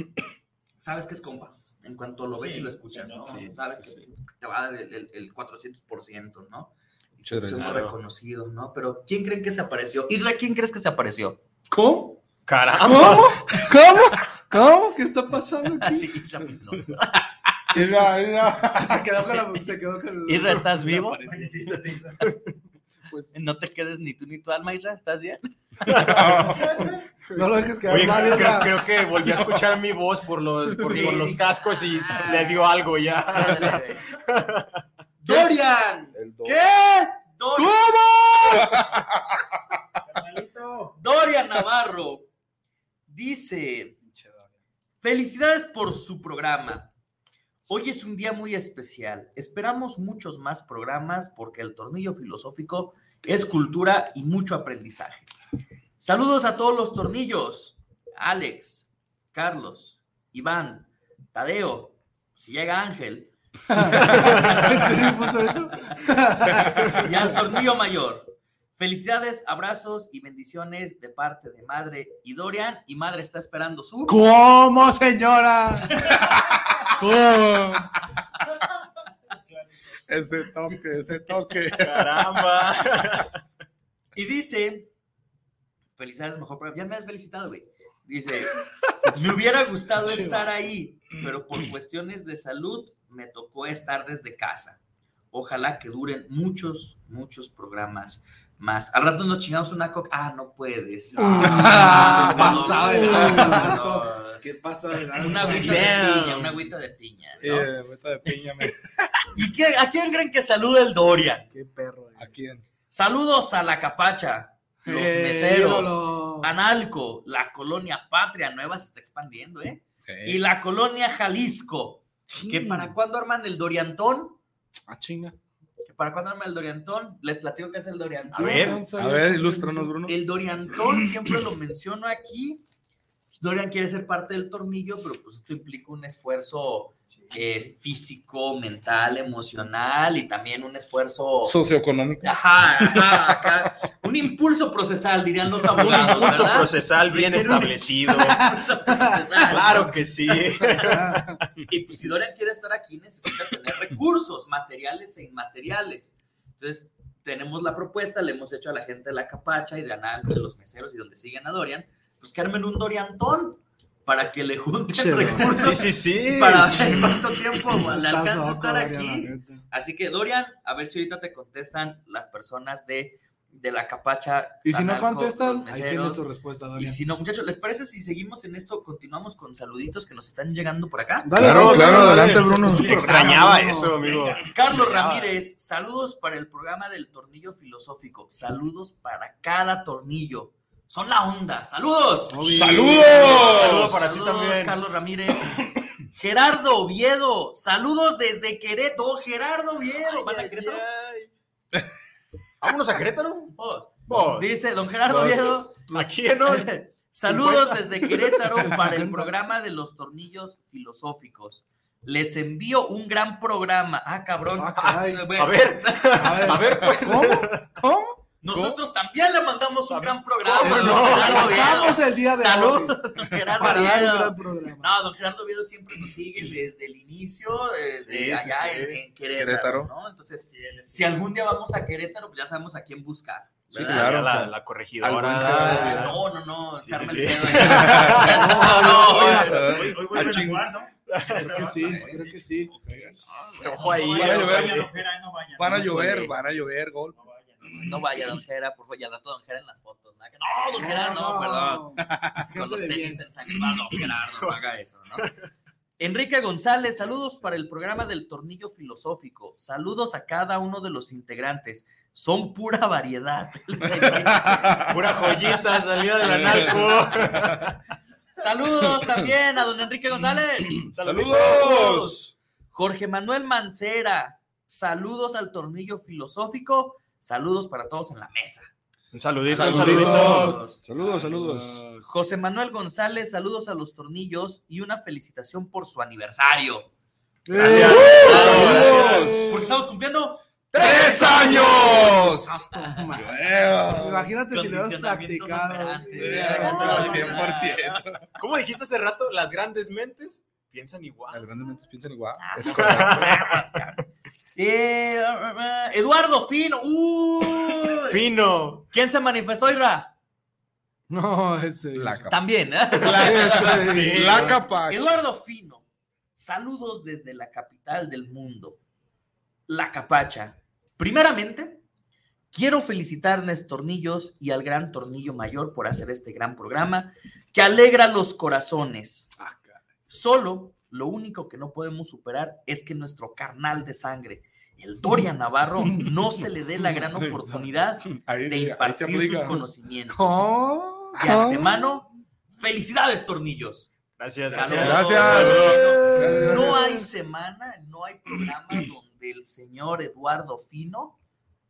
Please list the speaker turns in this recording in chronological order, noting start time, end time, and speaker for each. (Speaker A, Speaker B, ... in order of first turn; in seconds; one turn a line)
Speaker A: 0.8-11.4
Speaker B: 2.4-3.5
Speaker C: 3.3-4.0
Speaker D: 7.2-7.9
Speaker C: 7.6-7.9
Speaker E: 11.7-12.2
Speaker C: 12.4-13.4
Speaker E: 12.8-16.1
Speaker A: 15.7-17.3
Speaker D: 17.7-19.2
Speaker E: 18.7-21.1
Speaker A: 20.2-21.5
Speaker B: 21.2-22.3
Speaker A: 23.3-26.1
Speaker C: 25.9-26.2
Speaker D: 26.1-26.8
Speaker E: 27.3-28.9
Speaker C: 27.9-34.7
Speaker A: 30.9-32.7
Speaker A: 33.3-34.0
Speaker A: 35.2-36.1
Speaker D: 36.1-36.7
Speaker A: 37.3-37.7
Speaker E: 37.6-38.7
Speaker D: 38.7-39.4
Speaker B: 40.0-41.0
Speaker A: 41.0-42.3
Speaker A: 43.1-44.0
Speaker E: 44.0-44.5
Speaker A: 45.0-46.9
Speaker A: 47.7-55.3
Speaker A: 56.0-65.9
Speaker E: 63.7-67.0
Speaker C: 64.0-64.5
Speaker A: 67.0-74.2
Speaker E: 74.1-76.1
Speaker E: 77.0-77.9
Speaker B: 79.5-80.0
Speaker D: 80.1-82.3
Speaker C: 81.8-83.3
Speaker A: 84.1-84.9
Speaker A: 86.0-94.8
Speaker E: 90.0-90.5
Speaker A: 95.3-104.4
Speaker E: 101.1-106.0
Speaker D: 101.2-102.7
Speaker D: 103.2-103.5
Speaker A: 105.2-107.7
Speaker C: 105.4-106.7
Speaker D: 107.4-108.8
Speaker A: 109.3-111.5
Speaker E: 111.5-112.4
Speaker D: 112.2-112.6
Speaker A: 112.9-124.4
Speaker E: 114.8-116.5
Speaker D: 120.0-120.4
Speaker E: 122.5-122.9
Speaker E: 124.9-125.3
Speaker A: 125.8-128.8
Speaker E: 128.3-129.9
Speaker C: 128.3-128.8
Speaker D: 129.0-130.2
Speaker A: 130.0-132.6
Speaker A: 133.3-141.6
Speaker D: 141.4-142.3
Speaker A: 142.2-151.0
Speaker C: 145.7-148.4
Speaker E: 148.4-149.2
Speaker C: 149.5-151.5
Speaker E: 150.8-151.4
Speaker A: 151.7-176.2
Speaker E: 164.9-165.7
Speaker C: 165.4-167.3
Speaker E: 167.9-169.6
Speaker E: 174.6-177.0
Speaker A: 176.8-181.3
Speaker E: 181.2-184.0
Speaker C: 181.3-185.3
Speaker D: 181.4-183.4
Speaker B: 184.0-184.4
Speaker A: 184.5-195.5
Speaker E: 192.3-193.1
Speaker D: 192.5-194.0
Speaker C: 192.6-194.8
Speaker A: 196.1-200.8
Speaker C: 199.9-201.3
Speaker C: 202.6-203.5
Speaker A: 203.5-216.5
Speaker C: 204.1-204.5
Speaker C: 205.9-208.7
Speaker E: 208.6-209.3
Speaker E: 214.6-215.3
Speaker C: 215.3-217.7
Speaker E: 216.2-218.1
Speaker A: 218.4-234.2
Speaker D: 218.5-218.8
Speaker C: 219.9-221.7
Speaker E: 220.5-223.0
Speaker E: 223.6-224.9
Speaker C: 228.1-229.0
Speaker D: 229.3-229.9
Speaker B: 230.5-231.3
Speaker D: 233.7-236.2
Speaker C: 233.7-236.2
Speaker A: 235.6-239.9
Speaker C: 236.8-239.4
Speaker D: 237.7-238.3
Speaker E: 238.1-239.5
Speaker D: 239.3-240.7
Speaker B: 239.4-242.4
Speaker C: 241.1-241.5
Speaker E: 241.4-242.7
Speaker D: 241.8-243.2
Speaker A: 242.9-243.9
Speaker C: 243.3-244.9
Speaker B: 243.7-246.3
Speaker D: 244.1-244.8
Speaker D: 245.6-247.2
Speaker A: 245.7-246.3
Speaker B: 247.1-248.0
Speaker A: 247.8-251.9
Speaker E: 250.7-253.2
Speaker A: 252.5-255.3
Speaker A: 256.0-264.9
Speaker C: 264.8-267.8
Speaker D: 266.2-266.7
Speaker A: 268.4-272.2
Speaker D: 270.7-272.3
Speaker C: 271.0-271.6
Speaker A: 272.7-278.7
Speaker C: 279.1-280.6
Speaker A: 279.5-280.8
Speaker D: 279.5-281.8
Speaker E: 279.6-282.0
Speaker A: 282.1-286.9
Speaker E: 287.5-289.5
Speaker C: 287.5-289.2
Speaker D: 287.6-289.7
Speaker A: 287.6-292.3
Speaker D: 290.7-292.6
Speaker E: 290.8-296.9
Speaker D: 293.1-294.3
Speaker A: 294.5-298.2
Speaker D: 296.2-298.2
Speaker C: 296.6-297.2
Speaker B: 296.6-297.4
Speaker C: 298.4-301.5
Speaker D: 301.3-303.3
Speaker A: 302.4-308.1
Speaker C: 302.6-303.8
Speaker C: 308.0-308.8
Speaker A: 308.9-310.1
Speaker E: 311.1-312.3
Speaker D: 311.9-312.3
Speaker A: 312.3-314.2
Speaker E: 313.0-314.5
Speaker D: 313.1-315.2
Speaker C: 313.7-314.6
Speaker A: 314.8-315.8
Speaker A: 316.3-318.8
Speaker A: 319.7-321.8
Speaker A: 322.5-329.3
Speaker E: 329.4-329.8
Speaker A: 330.1-340.5
Speaker D: 338.1-339.5
Speaker E: 340.1-341.7
Speaker A: 341.1-343.9
Speaker D: 341.2-341.4
Speaker C: 344.2-345.8
Speaker A: 344.5-351.1
Speaker D: 344.8-347.1
Speaker E: 345.3-346.6